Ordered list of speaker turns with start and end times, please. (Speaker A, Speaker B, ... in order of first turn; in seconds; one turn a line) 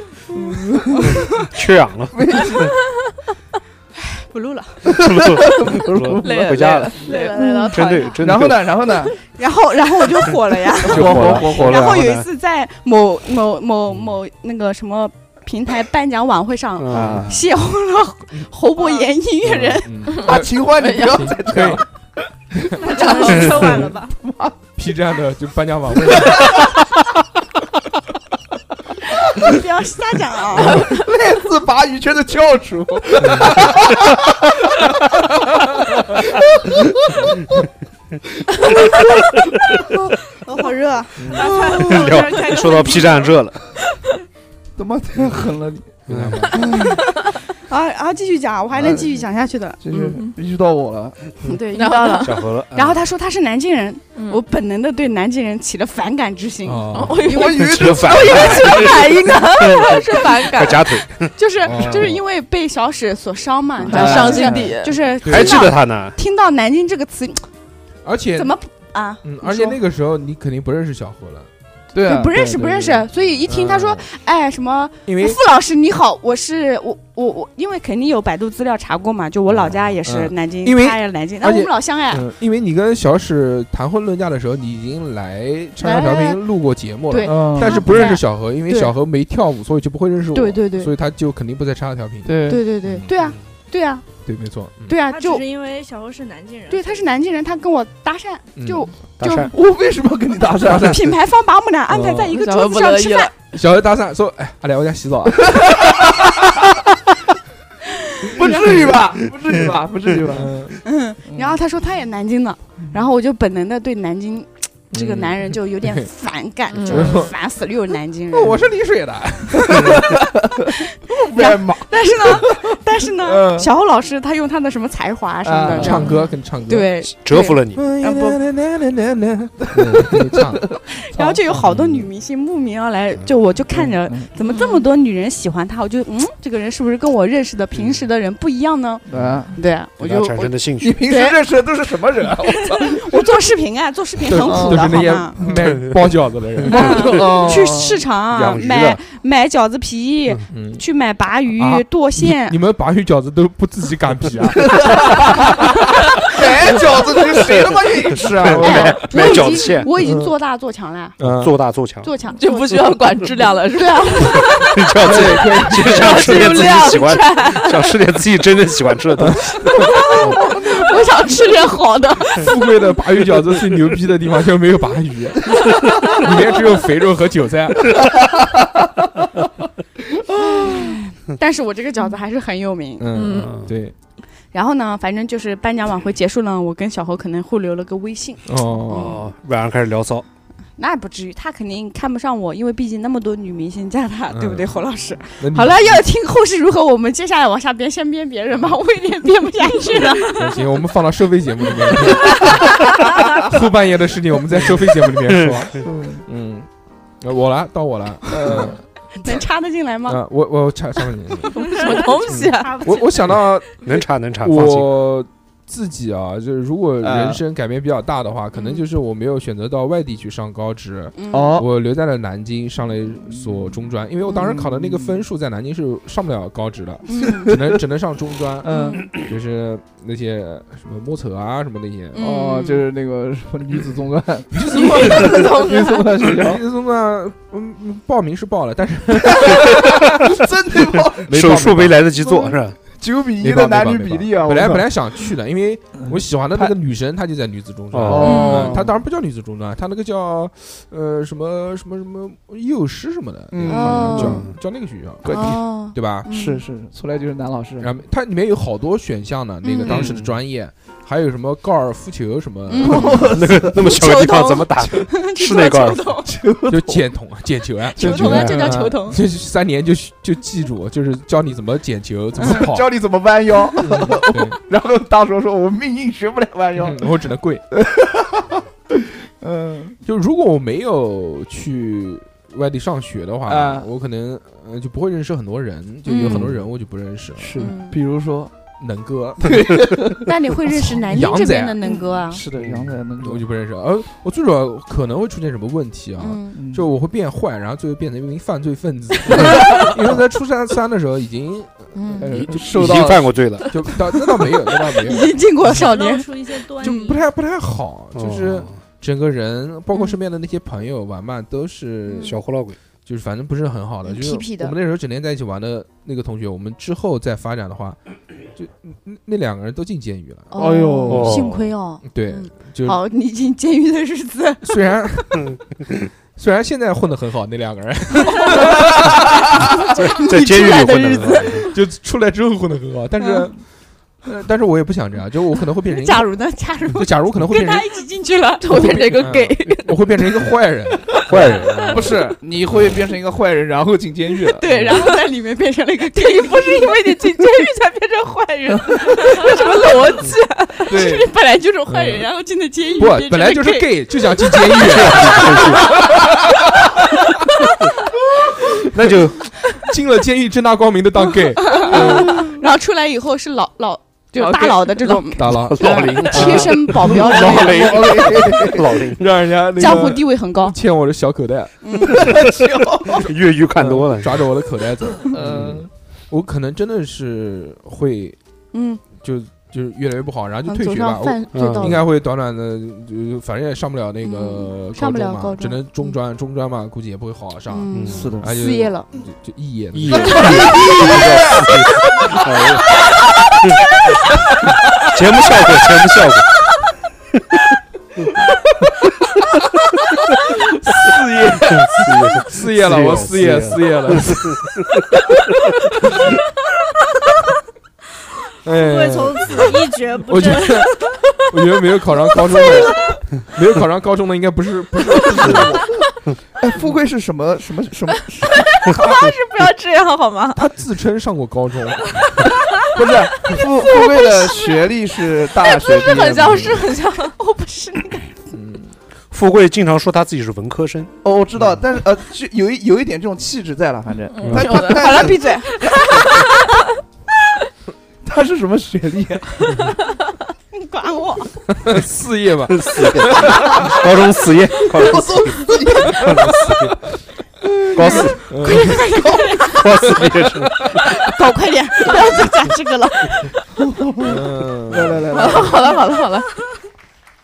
Speaker A: 0.3-1.2
Speaker B: 1.2-2.7
Speaker A: 2.1-2.7
Speaker C: 4.0-4.8
Speaker A: 4.9-6.8
Speaker B: 4.9-7.0
Speaker D: 6.2-8.1
Speaker C: 7.0-8.2
Speaker B: 7.7-8.7
Speaker A: 8.2-9.2
Speaker C: 9.4-20.1
Speaker B: 10.8-12.3
Speaker A: 10.8-12.0
Speaker E: 11.0-11.4
Speaker B: 16.8-17.3
Speaker A: 16.9-17.4
Speaker F: 18.8-19.1
Speaker E: 19.4-21.8
Speaker A: 20.2-21.9
Speaker D: 20.8-21.2
Speaker F: 22.8-24.1
Speaker D: 22.9-23.6
Speaker C: 22.9-23.5
Speaker A: 23.4-24.6
Speaker E: 24.8-26.7
Speaker C: 29.3-30.9
Speaker A: 30.6-34.9
Speaker E: 33.2-33.8
Speaker A: 36.1-36.4
Speaker A: 38.7-39.0
Speaker C: 40.5-41.9
Speaker E: 41.2-41.5
Speaker F: 41.3-43.4
Speaker B: 41.6-43.6
Speaker A: 44.8-46.9
Speaker E: 46.1-46.6
Speaker B: 46.1-46.6
Speaker C: 46.6-49.9
Speaker A: 48.8-49.1
Speaker A: 49.8-51.2
Speaker D: 50.0-50.3
Speaker C: 51.4-57.6
Speaker D: 51.7-52.5
Speaker B: 52.2-53.0
Speaker D: 54.1-54.4
Speaker E: 56.6-57.3
Speaker D: 56.9-61.0
Speaker A: 57.3-58.8
Speaker B: 57.6-61.4
Speaker C: 58.3-59.5
Speaker C: 61.4-67.5
Speaker E: 61.6-62.2
Speaker D: 63.8-65.0
Speaker A: 63.9-64.7
Speaker E: 65.2-65.7
Speaker B: 65.2-66.2
Speaker E: 68.0-68.5
Speaker C: 68.4-69.8
Speaker E: 69.2-71.5
Speaker A: 71.9-73.0
Speaker C: 72.0-82.2
Speaker E: 73.2-74.1
Speaker E: 75.1-75.4
Speaker E: 79.5-93.2
Speaker C: 85.8-86.4
Speaker C: 87.1-88.9
Speaker A: 87.2-87.8
Speaker C: 90.3-90.9
Speaker A: 92.2-92.6
Speaker C: 92.5-94.1
Speaker E: 94.3-95.0
Speaker C: 94.8-95.4
Speaker F: 95.1-97.1
Speaker C: 96.7-99.5
Speaker E: 98.6-98.9
Speaker B: 99.2-99.5
Speaker A: 99.5-101.1
Speaker C: 100.8-103.3
Speaker E: 101.9-102.3
Speaker D: 102.3-103.3
Speaker E: 103.5-106.3
Speaker A: 105.5-106.4
Speaker C: 108.2-108.9
Speaker A: 108.3-110.7
Speaker E: 110.3-110.8
Speaker C: 110.8-118.7
Speaker A: 111.2-111.6
Speaker E: 114.9-116.1
Speaker D: 116.7-117.2
Speaker E: 116.9-117.3
Speaker E: 118.3-120.1
Speaker A: 119.6-123.7
Speaker C: 121.3-128.4
Speaker A: 125.4-126.1
Speaker E: 125.7-127.0
Speaker D: 126.0-126.3
Speaker B: 127.1-127.9
Speaker E: 127.7-130.8
Speaker A: 129.7-131.4
Speaker C: 131.1-141.4
Speaker E: 131.5-132.1
Speaker A: 133.7-134.3
Speaker D: 134.5-134.8
Speaker E: 137.8-138.1
Speaker A: 139.1-139.6
Speaker B: 140.0-141.0
Speaker A: 140.8-143.2
Speaker C: 142.5-145.4
Speaker E: 144.2-147.4
Speaker A: 144.4-145.6
Speaker A: 146.6-148.0
Speaker C: 146.7-152.6
Speaker B: 148.3-149.0
Speaker E: 150.5-150.9
Speaker E: 151.6-155.6
Speaker A: 154.6-155.7
Speaker A: 156.2-159.1
Speaker B: 158.4-159.9
Speaker C: 158.6-161.2
Speaker E: 160.0-160.3
Speaker E: 161.2-161.6
Speaker B: 161.2-162.1
Speaker C: 162.0-162.9
Speaker D: 162.3-164.7
Speaker C: 163.7-164.7
Speaker B: 164.7-169.6
Speaker E: 165.0-166.8
Speaker D: 165.8-167.9
Speaker E: 169.2-170.2
Speaker C: 169.8-172.6
Speaker E: 172.3-178.2
Speaker C: 180.4-183.1
Speaker E: 183.0-183.9
Speaker D: 183.1-183.6
Speaker C: 184.5-189.2
Speaker E: 188.5-189.2
Speaker B: 188.9-190.2
Speaker C: 190.8-200.6
Speaker E: 194.3-194.8
Speaker E: 195.4-196.1
Speaker E: 200.3-206.7
Speaker C: 201.9-202.8
Speaker A: 205.8-206.2
Speaker E: 207.2-208.8
Speaker A: 208.3-208.8
Speaker C: 209.2-210.2
Speaker E: 210.1-211.6
Speaker F: 211.5-213.4
Speaker D: 211.5-213.0
Speaker E: 212.3-213.9
Speaker B: 213.8-214.9
Speaker E: 214.4-232.3
Speaker A: 217.0-217.4
Speaker C: 218.6-218.8
Speaker C: 221.2-221.5
Speaker A: 221.3-221.7
Speaker A: 223.3-225.2
Speaker C: 224.3-224.6
Speaker C: 227.1-227.5
Speaker A: 227.2-227.8
Speaker A: 228.6-229.1
Speaker C: 228.7-229.2
Speaker C: 232.1-232.8
Speaker A: 232.2-236.6
Speaker E: 234.5-235.5
Speaker D: 235.3-236.0
Speaker E: 236.3-240.3
Speaker A: 239.2-241.3
Speaker E: 241.3-242.1
Speaker B: 241.3-242.8
Speaker A: 243.0-244.9
Speaker E: 243.4-256.3
Speaker A: 246.0-246.8
Speaker B: 247.9-248.6
Speaker A: 248.0-248.9
Speaker C: 248.2-248.8
Speaker A: 253.5-254.4
Speaker C: 253.7-254.5
Speaker B: 254.1-254.6
Speaker A: 255.2-255.6
Speaker C: 255.3-256.6
Speaker A: 256.2-257.9
Speaker E: 257.8-263.3
Speaker C: 259.6-260.1
Speaker B: 259.9-260.4
Speaker C: 262.7-266.3
Speaker A: 262.8-264.0
Speaker B: 263.3-266.2
Speaker A: 266.2-267.1
Speaker E: 266.7-272.9
Speaker A: 268.0-268.8
Speaker C: 268.0-269.2
Speaker A: 272.4-277.2
Speaker E: 273.9-274.6
Speaker E: 276.8-277.6
Speaker A: 277.7-280.0
Speaker E: 280.1-287.6
Speaker A: 283.5-283.9
Speaker C: 286.1-286.5
Speaker A: 287.4-288.5
Speaker C: 287.6-288.0
Speaker E: 288.8-289.8
Speaker A: 289.4-290.3
Speaker C: 290.2-292.4
Speaker E: 291.0-291.8
Speaker A: 291.8-293.4
Speaker E: 292.7-302.1
Speaker C: 296.2-296.6
Speaker A: 296.5-296.9
Speaker C: 299.4-299.9
Speaker C: 301.9-302.3
Speaker A: 302.2-303.4
Speaker B: 302.3-303.9
Speaker E: 303.7-305.8
Speaker C: 304.3-307.2
Speaker F: 305.7-307.2
Speaker E: 306.8-312.4
Speaker B: 308.1-308.8
Speaker C: 312.1-312.4
Speaker B: 312.2-312.8
Speaker E: 313.1-318.0
Speaker C: 314.1-314.8
Speaker E: 318.5-323.0
Speaker C: 320.5-325.4
Speaker A: 320.6-321.3
Speaker B: 320.6-321.7
Speaker E: 324.6-325.6
Speaker E: 326.4-329.7
Speaker C: 328.3-328.7
Speaker C: 329.6-331.7
Speaker B: 329.9-331.7
Speaker E: 331.2-333.6
Speaker C: 333.2-333.5
Speaker E: 334.2-337.9
Speaker C: 335.9-339.2
Speaker D: 338.6-340.0
Speaker E: 338.8-342.1
Speaker B: 341.3-342.2
Speaker A: 341.9-344.6
Speaker C: 344.6-347.0
Speaker D: 346.2-351.1
Speaker F: 348.9-350.1
Speaker C: 349.1-350.3
Speaker A: 350.9-351.3
Speaker C: 350.9-355.9
Speaker E: 351.9-352.3
Speaker E: 353.0-357.2
Speaker B: 354.8-356.0
Speaker E: 358.8-362.6
Speaker B: 358.9-359.4
Speaker C: 361.4-368.0
Speaker A: 361.9-362.5
Speaker D: 364.4-365.2
Speaker E: 365.4-368.4
Speaker B: 365.5-369.3
Speaker A: 367.2-369.0
Speaker E: 369.1-372.3
Speaker A: 369.8-370.1
Speaker C: 369.8-370.8
Speaker C: 371.8-372.3
Speaker A: 372.1-373.3
Speaker B: 373.2-374.5
Speaker E: 373.8-378.4
Speaker A: 375.3-375.9
Speaker C: 378.7-379.1
Speaker E: 379.1-391.1
Speaker C: 380.7-382.1
Speaker B: 381.5-382.0
Speaker C: 384.2-386.2
Speaker C: 387.7-389.1
Speaker B: 387.9-388.3
Speaker A: 388.1-388.5
Speaker B: 389.9-392.9
Speaker C: 390.1-391.2
Speaker A: 390.5-390.9
Speaker B: 395.1-396.5
Speaker E: 400.9-404.7
Speaker B: 401.9-405.0
Speaker E: 408.6-410.9
Speaker F: 408.7-411.1
Speaker E: 411.5-415.9
Speaker F: 412.5-413.0
Speaker A: 416.6-418.7
Speaker F: 418.9-420.1
Speaker D: 418.9-420.6
Speaker E: 420.6-422.5
Speaker A: 422.9-426.9
Speaker D: 426.1-427.3
Speaker C: 426.1-428.4
Speaker E: 428.5-428.9
Speaker B: 429.3-431.1
Speaker A: 431.2-435.4
Speaker D: 434.3-436.4
Speaker B: 434.4-434.7
Speaker C: 434.8-436.1
Speaker A: 438.2-439.8
Speaker C: 440.7-441.5
Speaker E: 441.7-443.6
Speaker B: 442.7-446.9
Speaker A: 443.3-443.9
Speaker A: 444.9-446.7
Speaker A: 447.7-448.3
Speaker B: 447.9-448.5
Speaker C: 448.0-449.9
Speaker E: 448.5-449.4
Speaker B: 449.7-450.9
Speaker C: 451.2-453.5
Speaker A: 453.8-455.8
Speaker E: 454.2-455.3
Speaker D: 455.3-456.5